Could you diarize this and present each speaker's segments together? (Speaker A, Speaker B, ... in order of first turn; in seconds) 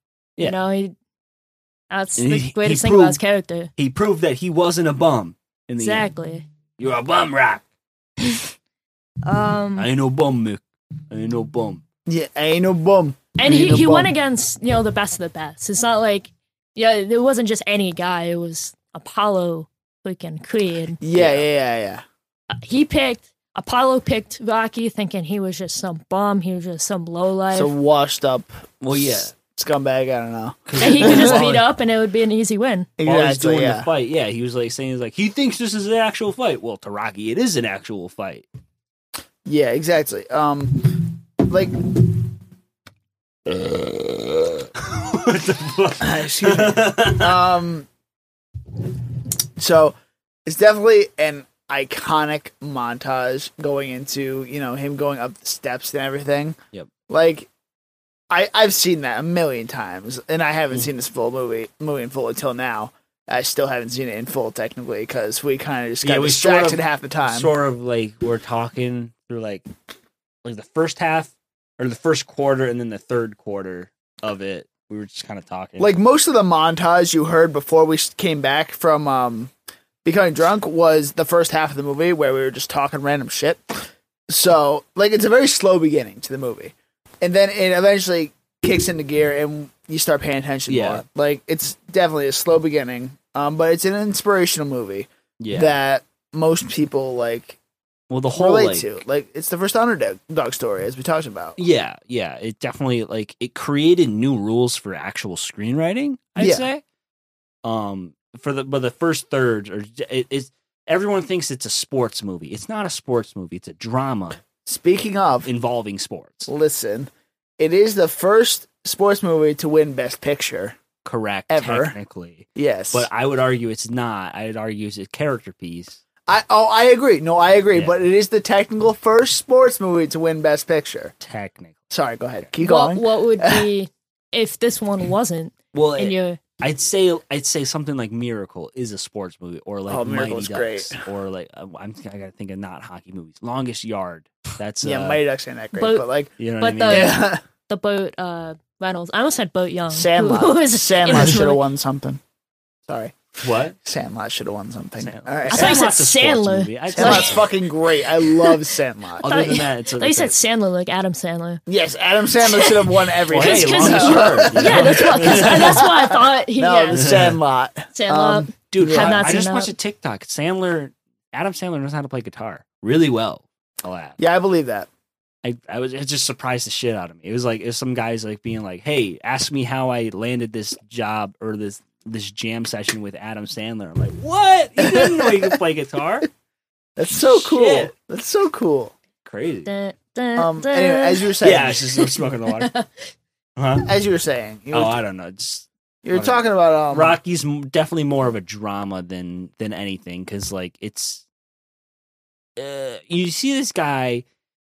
Speaker A: 0.4-0.9, 1.9-3.7, 5.8-6.4, 9.2-9.9, 13.3-21.0, 22.6-27.7, 30.8-32.9, 132.6-136.4, 145.8-146.1, 146.6-151.6, 155.5-157.4, 158.2-158.5, 159.2-161.6, 162.4-167.2, 167.9-169.7, 189.7-191.3, 191.9-192.9
Speaker B: 2.2-3.2, 3.8-6.1, 6.8-7.6, 9.8-11.8, 21.1-21.4, 28.8-29.3, 30.7-31.7, 33.0-38.5, 43.5-44.2, 44.8-47.4, 66.0-69.6, 70.4-75.9, 90.7-91.0, 95.4-95.7, 98.1-98.9, 101.6-106.8, 107.6-114.4, 115.5-116.5, 121.0-126.0, 131.2-131.8, 135.7-145.2, 146.4-147.2, 153.4-153.8, 155.0-157.5, 159.2-160.3, 163.3-165.9, 166.9-167.4, 168.7-174.2, 175.4-186.3, 187.1-187.9, 189.2-189.7, 191.4-192.7, 193.6-193.9, 194.7-201.2, 202.6-204.2
Speaker C: 12.1-14.1, 21.0-22.0, 27.5-31.4, 33.0-33.9, 39.5-42.1, 46.0-47.9, 49.6-56.6, 57.1-57.5, 58.3-67.5, 75.8-79.5, 80.0-97.6, 98.3-101.6, 106.4-106.7, 114.6-115.5, 116.5-120.8, 121.5-121.9, 122.5-123.1, 126.3-131.1, 131.9-133.7, 139.9-141.0, 144.8-146.3, 146.8-147.4, 149.9-152.2, 152.9-155.8, 156.9-159.2, 161.7-169.3, 174.2-174.9, 184.8-185.6, 187.0-188.9, 190.3-191.8, 193.8-194.9, 196.0-197.2